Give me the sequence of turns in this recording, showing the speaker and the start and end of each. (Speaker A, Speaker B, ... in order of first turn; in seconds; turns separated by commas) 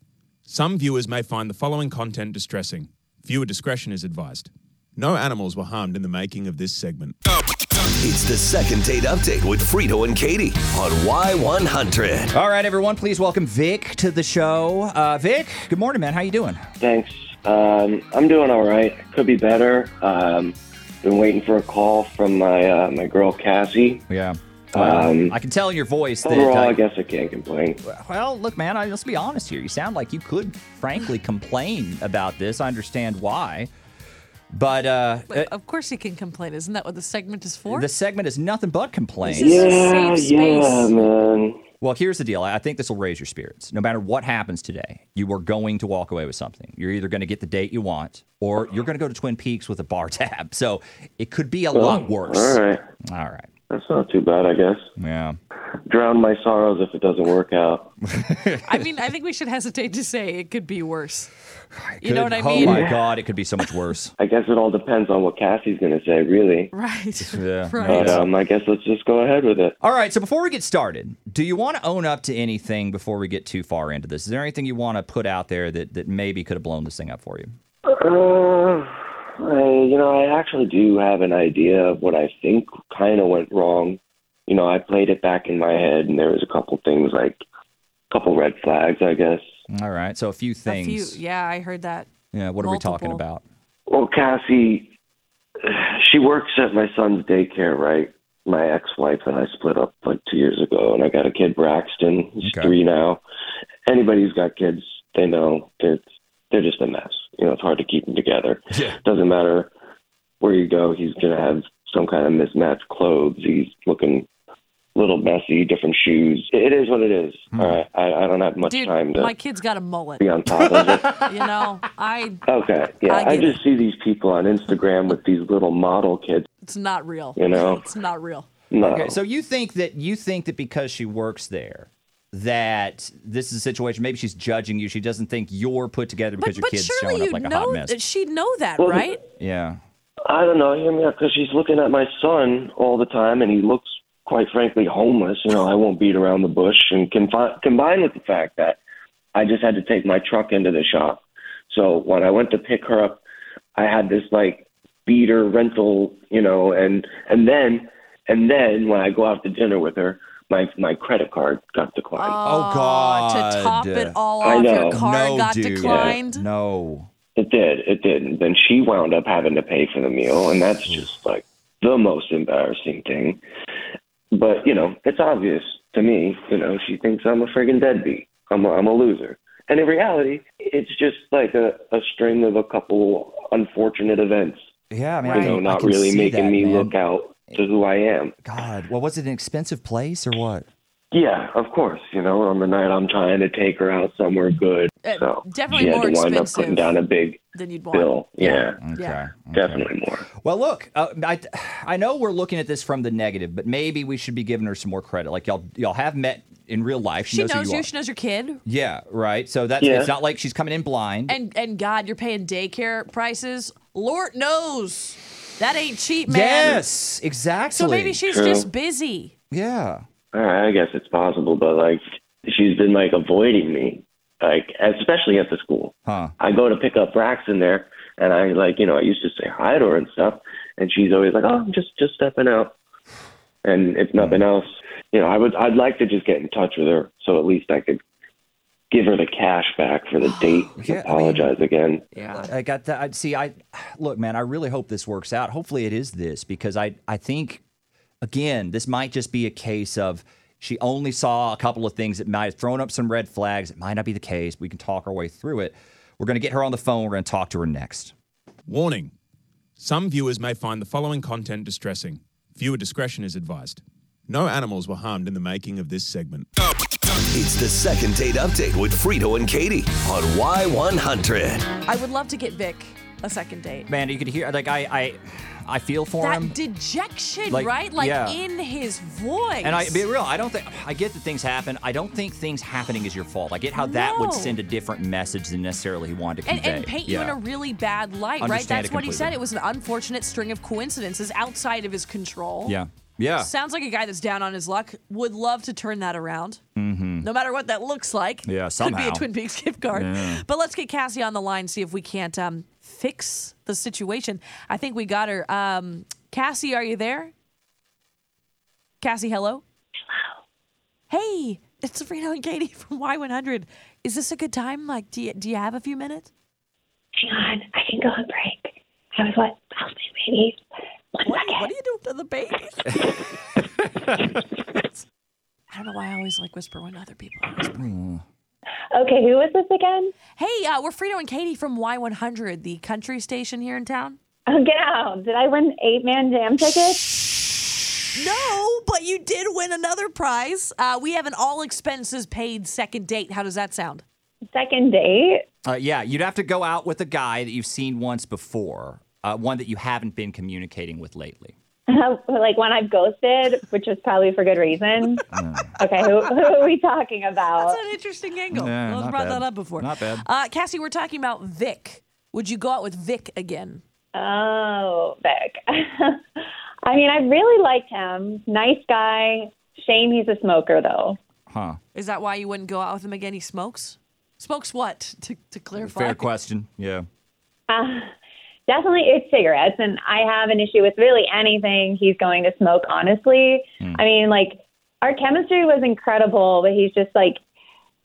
Speaker A: 0.5-7.2, Speaker B: 8.0-12.3, Speaker C: 12.3-16.6, Speaker D: 16.8-24.1, Speaker C: 24.1-26.8, Speaker D: 24.8-25.4, Speaker D: 26.2-27.8, Speaker C: 27.8-33.7, Speaker C: 34.5-35.5, Speaker E: 35.3-37.9, Speaker C: 37.7-39.8, Speaker E: 39.3-41.0, Speaker D: 39.3-41.6, Speaker C: 41.8-53.5, Speaker D: 51.7-52.8, Speaker D: 53.7-54.9, Speaker C: 55.0-55.4, Speaker D: 55.9-57.9, Speaker C: 58.1-58.8, Speaker E: 58.6-61.3, Speaker C: 61.8-64.1, Speaker E: 62.0-63.0, Speaker D: 62.6-63.0, Speaker D: 64.2-66.7, Speaker E: 66.7-68.3, Speaker C: 67.2-68.3, Speaker D: 67.8-69.8, Speaker C: 69.8-77.5, Speaker D: 77.9-87.4, Speaker D: 88.1-89.5, Speaker C: 89.7-91.2, Speaker E: 90.7-92.1, Speaker C: 92.3-93.4, Speaker E: 92.6-93.2, Speaker D: 93.9-94.9, Speaker D: 95.6-103.2, Speaker C: 102.4-102.7, Speaker D: 103.9-109.7, Speaker D: 110.4-114.3, Speaker D: 115.0-119.3, Speaker C: 117.5-117.8, Speaker E: 118.6-120.3, Speaker D: 120.2-121.2, Speaker E: 120.8-122.4, Speaker D: 122.5-126.5, Speaker E: 123.0-123.6, Speaker E: 126.6-128.5, Speaker D: 127.4-127.9, Speaker D: 128.7-129.2, Speaker C: 128.8-137.9, Speaker E: 136.4-139.2, Speaker D: 138.8-139.1, Speaker C: 139.4-139.8, Speaker D: 140.3-148.8, Speaker D: 149.3-153.2, Speaker D: 153.8-162.4, Speaker E: 162.2-166.4, Speaker C: 162.4-167.1, Speaker D: 164.4-165.0, Speaker D: 165.8-166.2, Speaker D: 167.4-173.4, Speaker D: 174.3-184.6, Speaker C: 184.9-187.0, Speaker E: 185.2-185.6, Speaker D: 185.2-188.3, Speaker C: 188.4-190.7, Speaker D: 191.1-198.8, Speaker E: 195.0-196.9, Speaker E: 197.5-198.1, Speaker C: 198.4-199.9, Speaker D: 199.5-200.3, Speaker C: 200.4-207.9, Speaker E: 207.3-208.6, Speaker C: 208.7-211.4, Speaker D: 209.8-210.1, Speaker E: 211.3-216.9, Speaker C: 216.3-218.2, Speaker E: 217.7-219.3, Speaker D: 218.3-218.7, Speaker C: 219.5-220.0, Speaker D: 220.3-232.8, Speaker C: 226.1-226.3, Speaker D: 233.6-238.0, Speaker D: 238.9-242.1, Speaker C: 240.6-241.5, Speaker C: 242.2-247.6, Speaker C: 248.2-258.1, Speaker A: 258.7-259.1, Speaker A: 259.8-266.5, Speaker B: 267.3-271.7, Speaker E: 271.9-273.9, Speaker C: 273.9-276.6, Speaker E: 276.2-280.1, Speaker C: 277.5-278.4, Speaker C: 279.6-287.4, Speaker E: 283.7-284.6, Speaker E: 286.5-292.8, Speaker C: 288.4-289.4, Speaker C: 292.7-293.5, Speaker E: 293.4-296.6, Speaker C: 296.8-297.3, Speaker E: 297.2-307.3, Speaker C: 298.4-299.3, Speaker C: 299.9-300.4, Speaker E: 309.0-309.6, Speaker E: 311.1-316.3, Speaker F: 317.2-320.6, Speaker F: 321.1-321.7, Speaker E: 321.3-323.0, Speaker E: 325.7-327.8, Speaker C: 327.7-328.2, Speaker F: 328.9-330.1, Speaker E: 330.4-334.2, Speaker F: 334.5-337.2, Speaker E: 338.1-344.0, Speaker F: 344.5-345.4, Speaker C: 345.6-351.6, Speaker F: 351.9-355.2, Speaker C: 355.3-355.8, Speaker F: 355.8-357.8, Speaker E: 357.6-363.8, Speaker C: 358.5-360.2, Speaker F: 364.1-371.2, Speaker C: 371.5-371.8, Speaker E: 371.9-376.3, Speaker C: 375.8-377.1, Speaker F: 377.7-378.1, Speaker F: 378.7-387.4